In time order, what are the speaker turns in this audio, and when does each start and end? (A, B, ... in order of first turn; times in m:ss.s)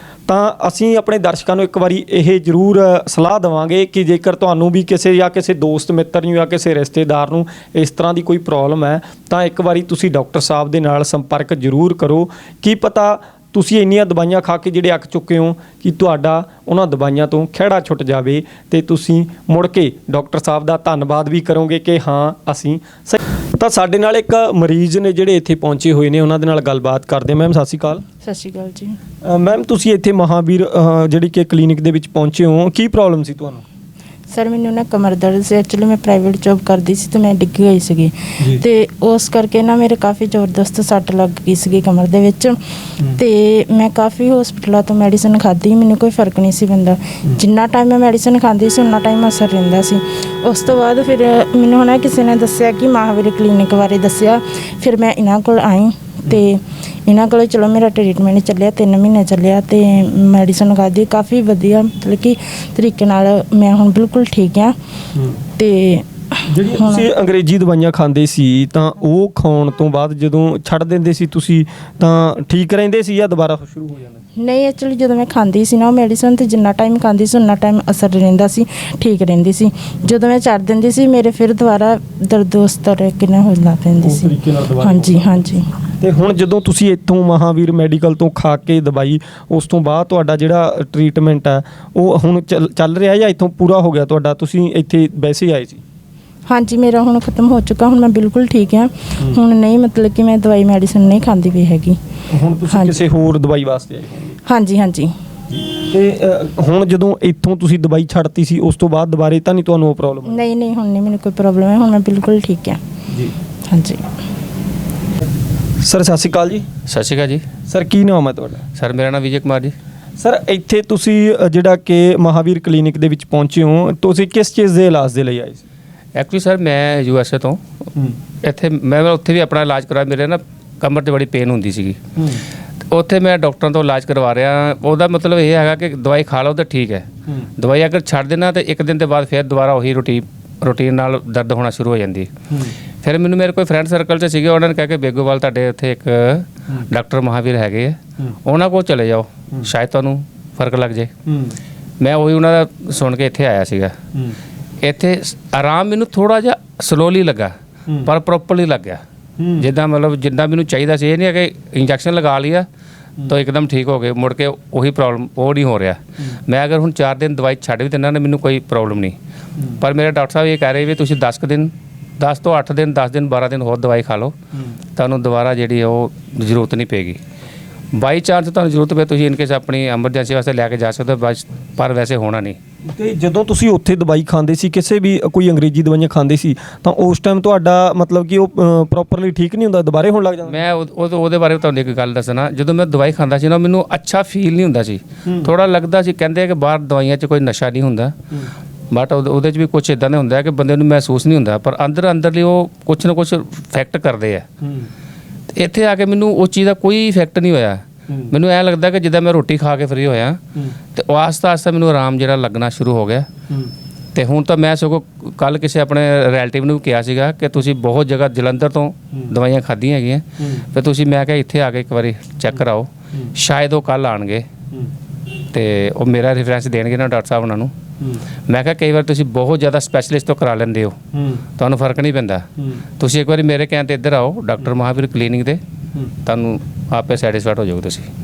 0:00.3-0:28.0 A
0:28.2-0:29.0 B
0:29.2-0:33.6 A
0:34.3-0:42.6 B
0:43.1-1:04.7 B
1:05.1-1:05.4 A
1:05.6-1:07.1 B
1:06.5-1:14.2 A
1:14.4-1:25.6 B
1:24.0-1:25.4 A
1:26.0-1:35.8 A
1:36.5-1:42.0 B
1:42.3-1:44.4 A
1:42.7-1:43.0 B
1:44.4-1:45.1 B
1:45.5-1:50.4 A
1:50.2-1:52.8 B
1:53.1-1:53.3 A
1:53.7-1:54.0 B
1:55.8-1:56.6 A
1:57.1-1:57.4 C
1:57.7-1:58.6 A
1:58.8-1:59.7 C
2:00.2-2:05.6 A
2:06.2-2:07.6 C
2:08.4-2:12.0 C
2:12.2-2:12.4 A
2:12.9-2:17.1 C
2:17.6-2:22.3 C
2:23.0-2:31.1 C
2:31.2-2:31.6 A
2:32.0-2:33.9 C
2:34.8-2:39.0 C
2:39.4-2:39.7 A
2:39.6-2:42.7 C
2:43.3-2:49.2 C
2:49.8-2:54.3 C
2:55.0-2:57.2 C
2:57.9-3:02.6 C
3:02.9-3:10.6 A
3:10.7-3:18.1 C
3:15.2-3:15.5 A
3:18.9-3:24.4 C
3:24.6-3:24.9 A
3:25.6-3:30.4 C
3:30.9-3:33.3 C
3:34.1-3:44.4 C
3:45.5-3:47.7 C
3:48.5-3:51.0 C
3:51.1-3:51.4 A
3:51.6-3:52.4 C
3:53.0-3:55.6 C
3:56.2-3:58.1 C